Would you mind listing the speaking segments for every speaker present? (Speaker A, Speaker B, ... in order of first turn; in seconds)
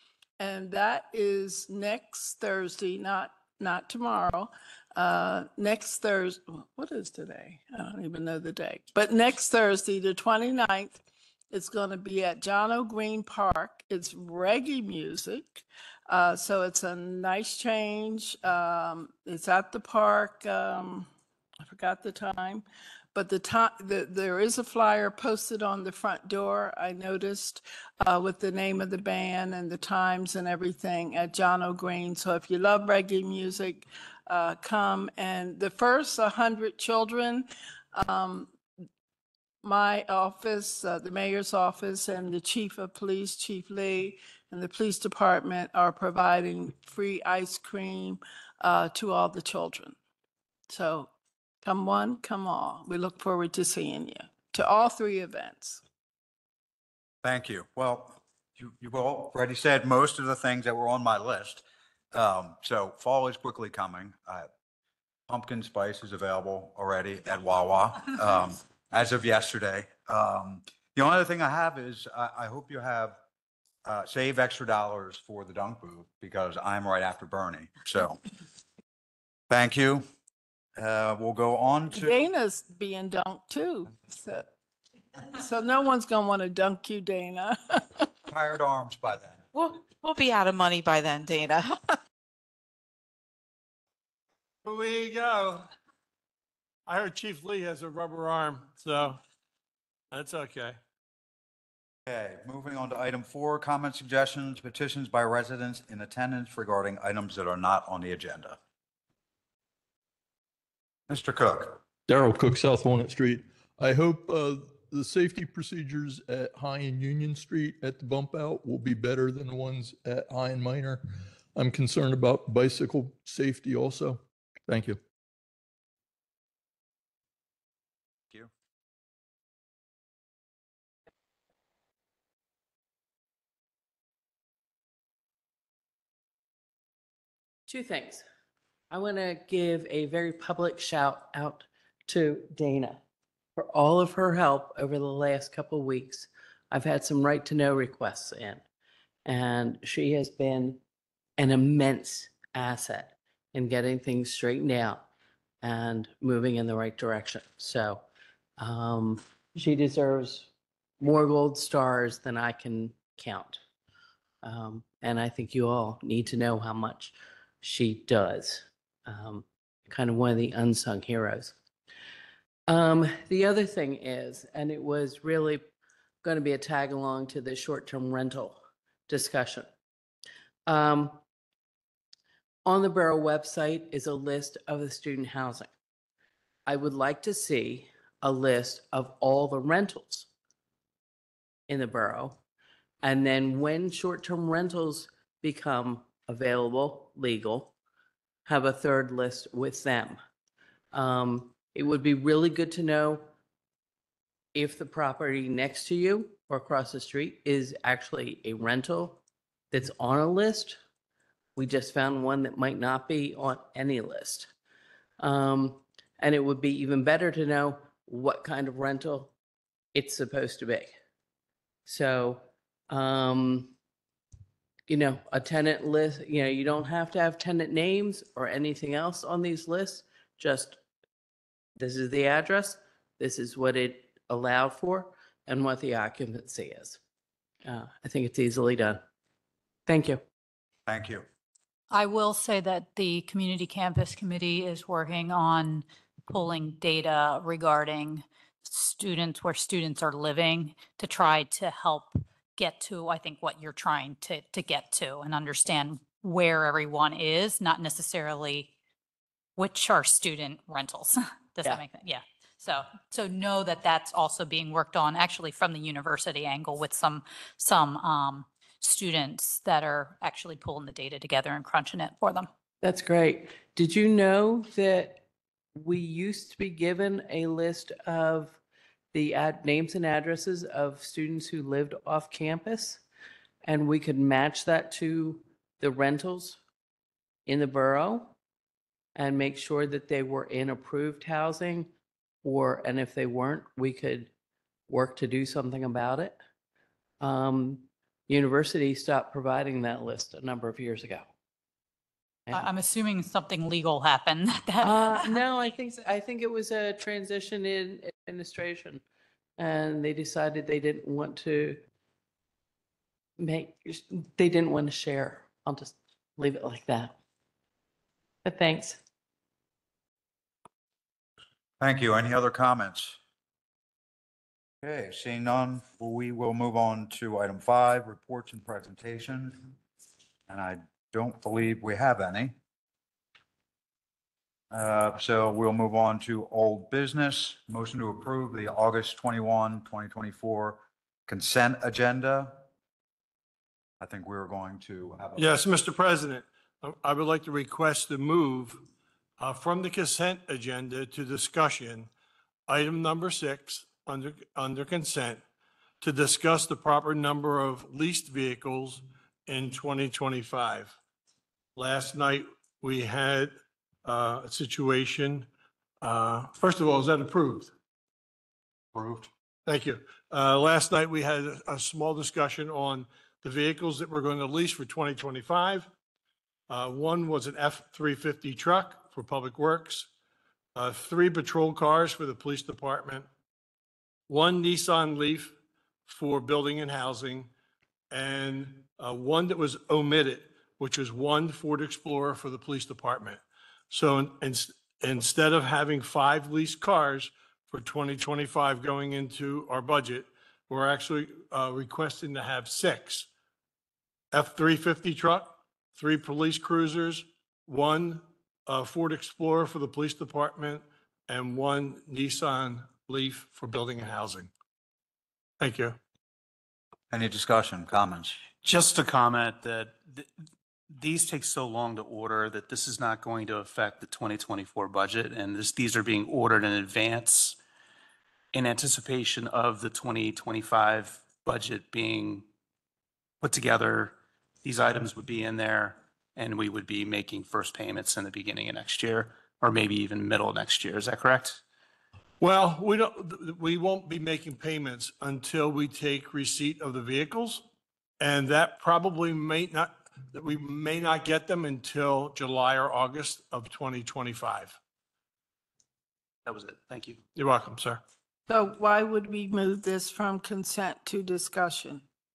Speaker A: 0.4-11.0, 11.5-21.1, 21.6-38.5, 39.6-50.0, 50.7-51.1, 51.6-55.8, 81.9-84.5, 85.3-88.1, 458.5-462.0
Speaker B: 57.2-64.5, 65.3-73.2, 73.8-78.2, 79.5-80.0, 80.8-82.1, 88.3-89.4, 102.1-108.6, 111.1-111.8, 240.9-241.2, 321.8-323.2, 324.8-329.7, 330.5-332.6, 334.7-342.6, 344.0-345.6, 368.9-369.3, 417.1-418.4
Speaker C: 89.5-92.0
Speaker D: 94.6-95.6, 96.9-99.2, 100.1-100.6, 345.4-348.8, 349.4-352.1, 352.7-355.4, 356.0-361.0, 361.8-365.5, 366.0-367.7, 369.7-375.9, 376.7-380.1, 380.8-383.3, 384.3-385.6, 386.1-387.5, 388.1-403.3, 404.3-414.5, 415.6-416.0, 442.4-447.6, 448.2-454.8, 457.4-458.0
Speaker E: 112.1-125.0
Speaker F: 137.7-138.2, 138.9-143.0, 143.6-148.6, 149.2-150.8, 151.4-155.1, 155.6-158.0, 158.6-163.6, 164.4-171.6, 172.7-175.7, 176.2-179.7, 180.7-181.2, 182.7-185.7, 186.7-190.3, 191.7-192.4, 193.0-197.7, 198.5-200.2, 200.9-203.3, 204.6-210.8, 211.6-214.5, 215.2-219.3, 219.9-221.0, 221.9-223.7, 224.9-230.8, 231.8-237.0, 237.7-239.1, 239.9-240.2, 272.8-275.2, 275.8-278.6, 279.1-283.0, 283.6-286.6, 287.5-288.4, 289.1-294.3, 294.9-296.4, 297.2-301.3, 304.8-309.0, 309.6-311.8, 313.4-317.2, 318.4-319.0
Speaker G: 241.9-258.7, 259.6-272.5, 302.5-305.4
Speaker H: 418.6-420.3, 420.9-427.6, 428.5-432.4, 433.4-441.6, 456.5-457.2